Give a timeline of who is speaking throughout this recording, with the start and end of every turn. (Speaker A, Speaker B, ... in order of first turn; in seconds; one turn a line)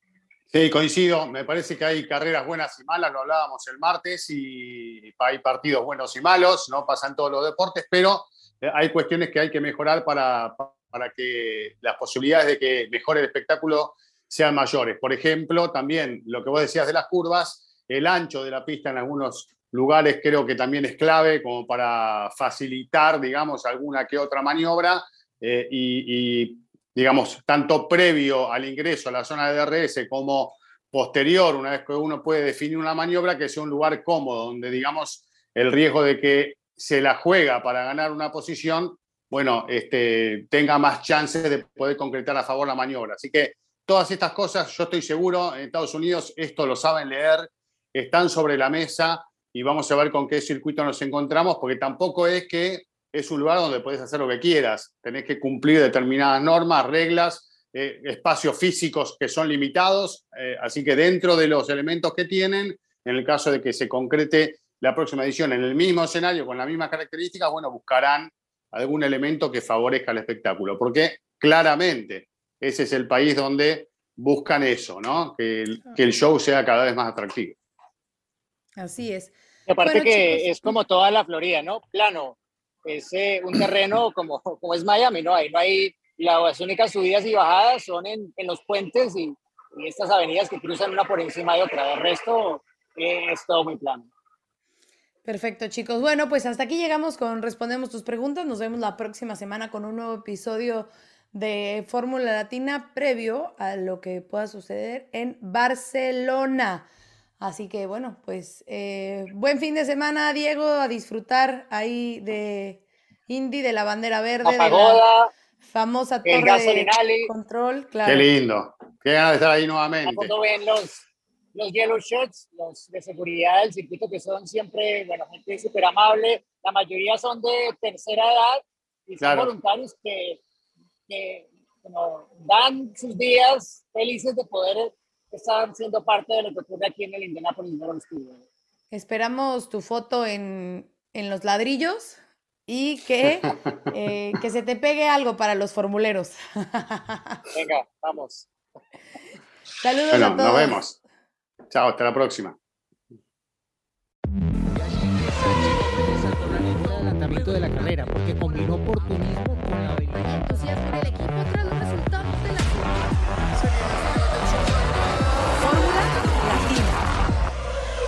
Speaker A: 0.5-77.5
Speaker B: 78.8-80.8
Speaker C: 79.7-94.1
Speaker B: 95.2-106.9
Speaker B: 107.4-115.0
Speaker C: 114.4-115.3
Speaker B: 115.6-118.3
Speaker C: 116.2-117.3
Speaker A: 118.1-120.3
Speaker C: 120.0-130.4
Speaker A: 129.2-129.5
Speaker C: 131.1-138.4
Speaker B: 138.9-147.4
Speaker C: 147.5-148.5
Speaker B: 149.8-151.0
Speaker A: 150.1-150.9
Speaker A: 151.7-152.6
Speaker D: 155.1-160.5
Speaker B: 160.1-163.3
Speaker B: 164.2-164.7
Speaker B: 165.6-167.0